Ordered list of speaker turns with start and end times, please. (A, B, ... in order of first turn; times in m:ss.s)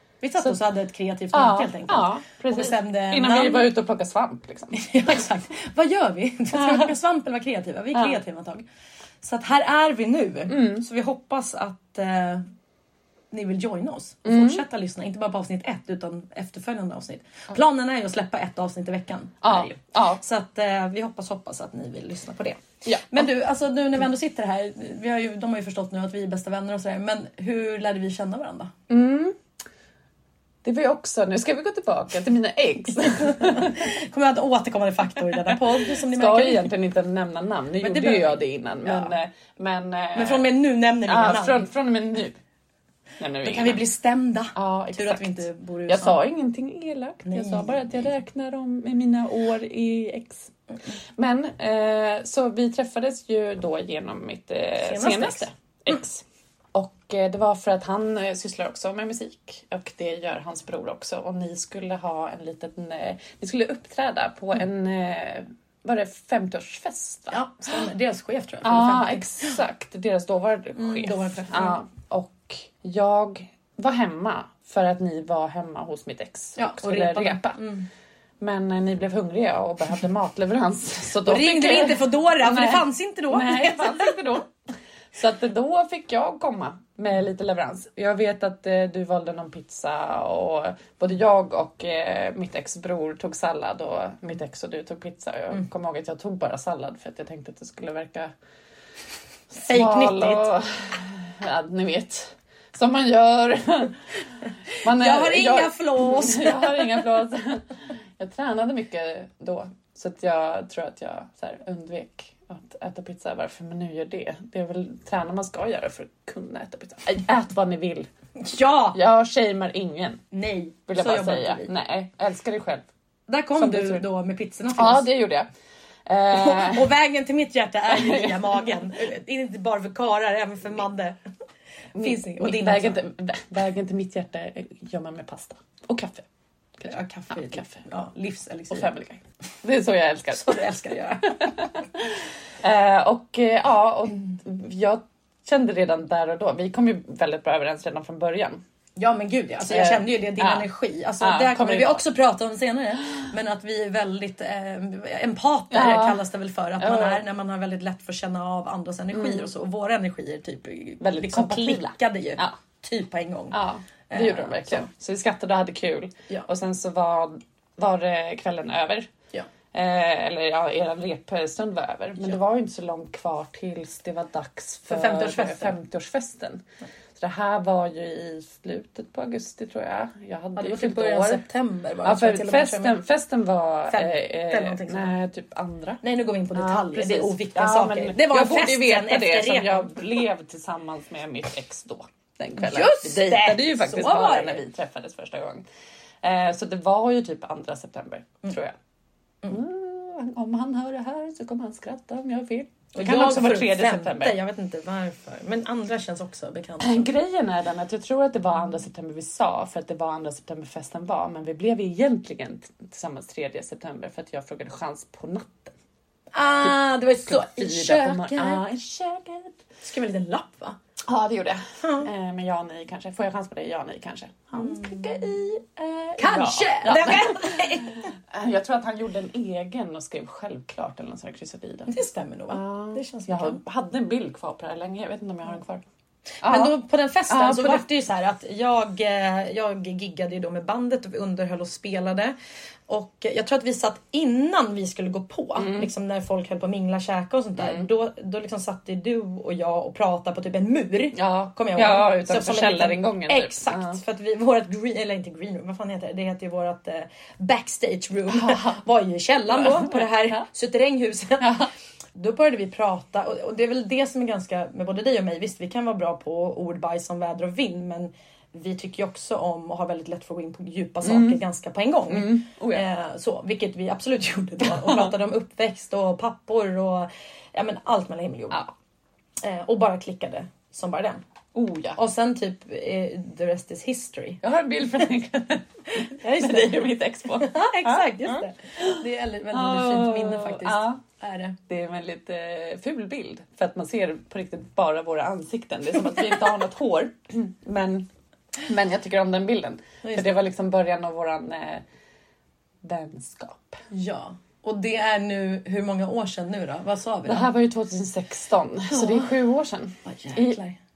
0:00.2-0:03.7 A
0:01.3-0:04.8 B
0:04.7-0:08.6 A
0:06.5-0:06.9 B
0:09.2-0:12.4 A
0:10.5-0:10.8 B
0:13.3-0:28.7 A
0:14.2-0:14.6 B
0:19.4-0:20.2 B
0:22.8-0:23.3 B
0:28.9-0:29.4 B
0:30.6-0:33.9 B
0:33.3-0:36.7 A
0:35.3-0:40.5 B
0:37.8-0:39.1 A
0:40.1-0:41.7 A
0:41.0-0:42.4 B
0:43.2-0:43.8 B
0:43.4-0:46.2 A
0:44.5-0:50.5 B
0:47.2-0:48.1 A
0:51.2-1:07.8 B
0:54.8-0:55.5 A
1:07.3-1:09.6 A
1:08.6-1:17.6 B
1:10.8-1:11.8 A
1:16.6-1:17.9 A
1:18.4-1:24.5 B
1:21.2-1:24.2 A
1:25.1-1:38.3 B
1:39.5-1:44.0 B
1:39.6-1:40.5 A
1:44.8-1:58.1 B
1:44.8-1:47.0 A
1:58.4-1:59.0 A
1:58.9-2:00.2 B
2:00.3-2:01.7 A
2:00.9-2:02.8 B
2:03.3-2:05.1 A
2:03.6-2:04.0 B
2:04.7-2:05.5 B
2:06.0-2:06.9 B
2:06.3-2:11.2 A
2:07.9-2:08.8 B
2:11.9-2:13.0 A
2:11.9-2:16.2 B
2:16.8-2:17.8 B
2:16.8-2:18.9 A
2:18.7-2:20.6 B
2:20.3-2:21.5 A
2:21.4-2:28.6 B
2:29.0-2:43.6 A
2:29.7-2:30.6 B
2:31.2-2:32.0 B
2:35.7-2:36.2 B
2:36.8-2:37.2 B
2:39.2-2:39.4 B
2:41.0-2:42.6 B
2:43.5-2:49.1 B
2:44.1-2:44.9 A
2:49.7-2:56.6 B
2:54.9-2:55.8 A
2:57.2-3:01.4 B
3:00.6-3:03.0 A
3:02.0-3:06.0 B
3:03.9-3:05.1 A
3:06.0-3:10.0 A
3:06.5-3:15.6 B
3:12.6-3:14.6 A
3:16.2-3:18.8 B
3:19.4-3:24.4 B
3:22.9-3:27.1 A
3:26.8-3:35.7 B
3:36.3-3:38.6 A
3:37.2-3:39.5 B
3:39.8-3:40.8 A
3:41.1-3:51.9 B
3:44.6-3:45.0 A
3:46.2-3:48.0 A
3:51.9-3:53.6 A
3:52.5-3:55.8 B
3:56.4-3:56.7 B
3:56.4-4:02.3 A
3:57.3-3:57.8 B
4:02.9-4:38.7 A
4:05.6-4:05.9 B
4:07.6-4:07.9 B
4:11.1-4:14.0 B
4:18.3-4:18.8 B
4:19.5-4:20.4 B
4:21.4-4:21.7 B
4:31.0-4:31.4 B
4:32.1-4:32.8 B
4:34.6-4:35.1 B
4:39.4-4:41.2 A
4:41.5-4:42.0 B
4:42.0-4:44.4 A
4:44.4-4:51.0 B
4:46.0-4:51.6 A
4:51.7-4:58.1 B
4:58.6-5:01.8 B
5:00.0-5:00.3 A
5:02.8-5:03.8 B
5:03.9-5:07.5 A
5:07.2-5:10.6 B
5:08.9-5:09.3 A
5:10.0-5:10.8 A